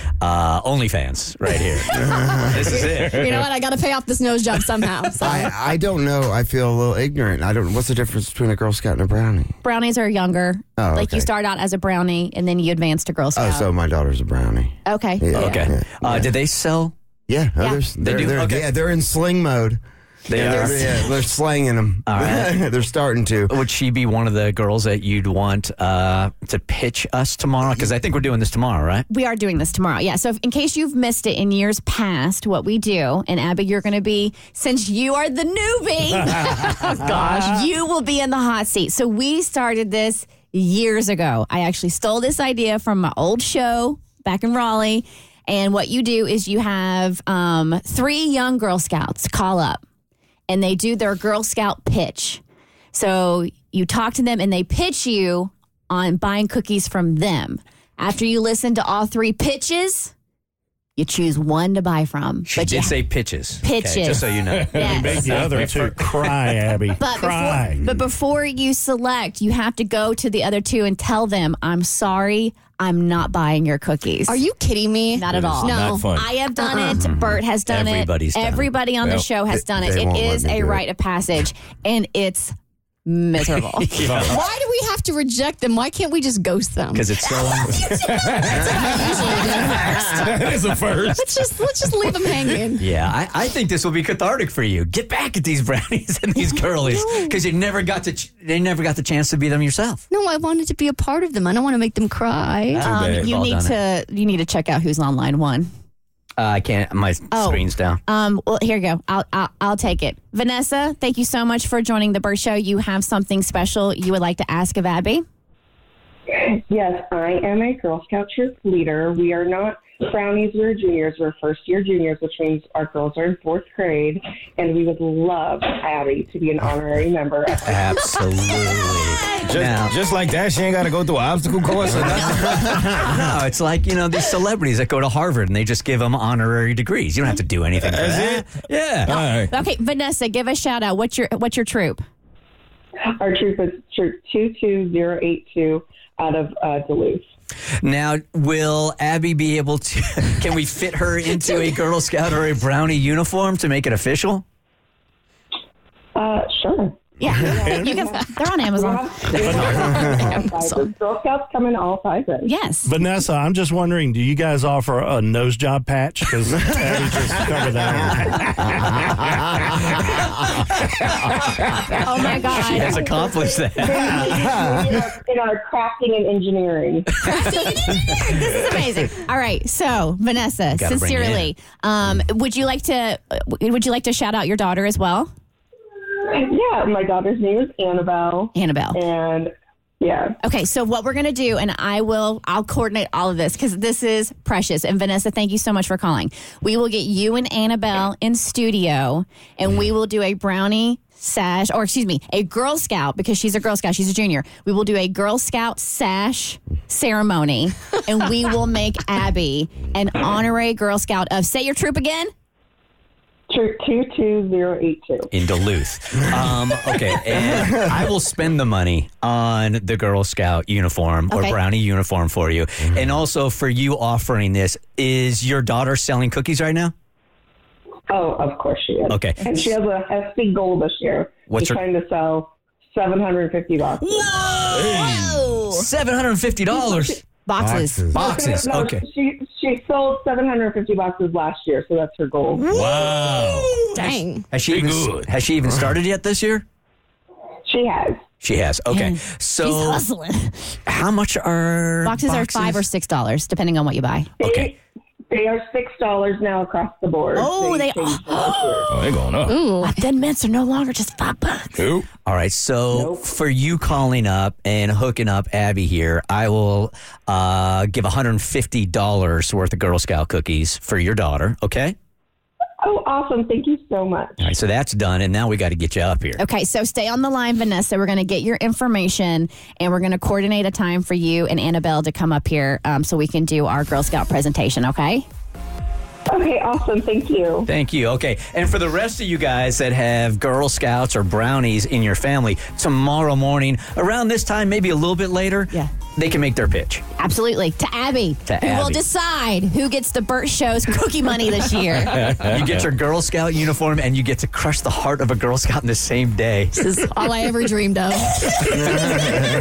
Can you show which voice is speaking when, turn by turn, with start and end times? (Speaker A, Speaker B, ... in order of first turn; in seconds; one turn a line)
Speaker A: 0.2-3.4
Speaker B: 1.9-2.8
Speaker C: 2.1-5.5
Speaker B: 5.2-9.6
Speaker D: 9.6-13.7
Speaker B: 10.8-11.3
Speaker B: 13.3-16.3
Speaker D: 14.8-15.7
Speaker A: 15.3-16.9
Speaker B: 17.3-19.8
Speaker A: 18.0-18.7
Speaker A: 20.3-20.9
Speaker D: 20.3-21.0
Speaker B: 20.3-23.5
Speaker A: 22.1-22.6
Speaker A: 23.5-29.1
Speaker D: 29.1-49.8
Speaker D: 50.5-52.4
Speaker D: 52.9-60.1
Speaker D: 61.0-63.0
Speaker A: 62.5-66.4
Speaker D: 63.6-65.4
Speaker E: 64.5-64.8
Speaker F: 64.8-68.0
Speaker D: 67.0-74.4
Speaker C: 74.3-77.0
Speaker D: 75.1-82.5
Speaker E: 75.3-76.4
Speaker A: 77.0-78.6
Speaker E: 79.0-79.3
Speaker B: 79.5-80.8
Speaker D: 83.0-83.9
Speaker A: 83.8-84.4
Speaker E: 84.0-84.4
Speaker C: 84.3-92.8
Speaker A: 86.9-87.8
Speaker E: 87.9-88.8
Speaker E: 90.2-91.5
Speaker A: 92.8-100.0
Speaker D: 96.8-97.3
Speaker C: 100.1-102.8
Speaker A: 102.7-103.8
Speaker D: 102.8-105.7
Speaker A: 106.4-108.0
Speaker D: 107.3-115.2
Speaker G: 116.3-128.0
Speaker A: 127.6-129.9
Speaker H: 129.5-132.0
Speaker A: 131.8-139.1
Speaker H: 138.1-138.4
Speaker D: 139.1-142.0
Speaker E: 139.1-139.5
Speaker G: 143.1-147.3
Speaker A: 147.8-154.4
Speaker G: 156.1-162.5
Speaker D: 157.2-160.0
Speaker C: 159.6-160.8
Speaker D: 162.4-162.9
Speaker F: 162.8-169.3
Speaker A: 170.0-174.3
Speaker D: 171.9-173.0
Speaker G: 172.7-177.1
Speaker D: 177.2-185.3
Speaker A: 180.7-181.5
Speaker G: 186.3-190.3
Speaker D: 188.5-189.0
Speaker D: 190.4-212.3
Speaker G: 213.5-215.3
Speaker A: 215.3-226.9
Speaker D: 221.3-221.6
Speaker G: 228.1-234.5
Speaker A: 229.1-229.7
Speaker A: 231.5-231.8
Speaker A: 234.0-237.2
Speaker E: 234.7-235.5
Speaker D: 234.8-235.8
Speaker G: 236.7-237.2
Speaker D: 237.4-238.2
Speaker B: 237.6-238.2
Speaker G: 238.1-242.6
Speaker A: 238.1-239.0
Speaker E: 242.6-243.8
Speaker A: 242.7-244.0
Speaker C: 243.9-244.4
Speaker A: 244.5-246.6
Speaker E: 244.7-245.3
Speaker G: 247.6-248.2
Speaker A: 248.4-250.0
Speaker D: 248.9-250.7
Speaker A: 250.9-252.8
Speaker D: 252.0-254.3
Speaker A: 254.4-254.7
Speaker G: 254.4-254.8
Speaker G: 255.3-258.9
Speaker D: 257.4-259.0
Speaker E: 258.9-259.6
Speaker C: 259.4-260.0
Speaker D: 259.8-261.9
Speaker E: 261.8-262.1
Speaker A: 262.2-271.9
Speaker G: 262.9-263.3
Speaker G: 272.8-274.5
Speaker A: 274.4-276.4
Speaker D: 276.4-285.2
Speaker G: 286.3-287.7
Speaker A: 287.6-297.0
Speaker D: 297.2-302.3
Speaker A: 298.4-299.0
Speaker A: 302.1-306.9
Speaker E: 302.2-302.8
Speaker C: 306.7-309.3
Speaker D: 308.4-308.8
Speaker B: 308.9-309.3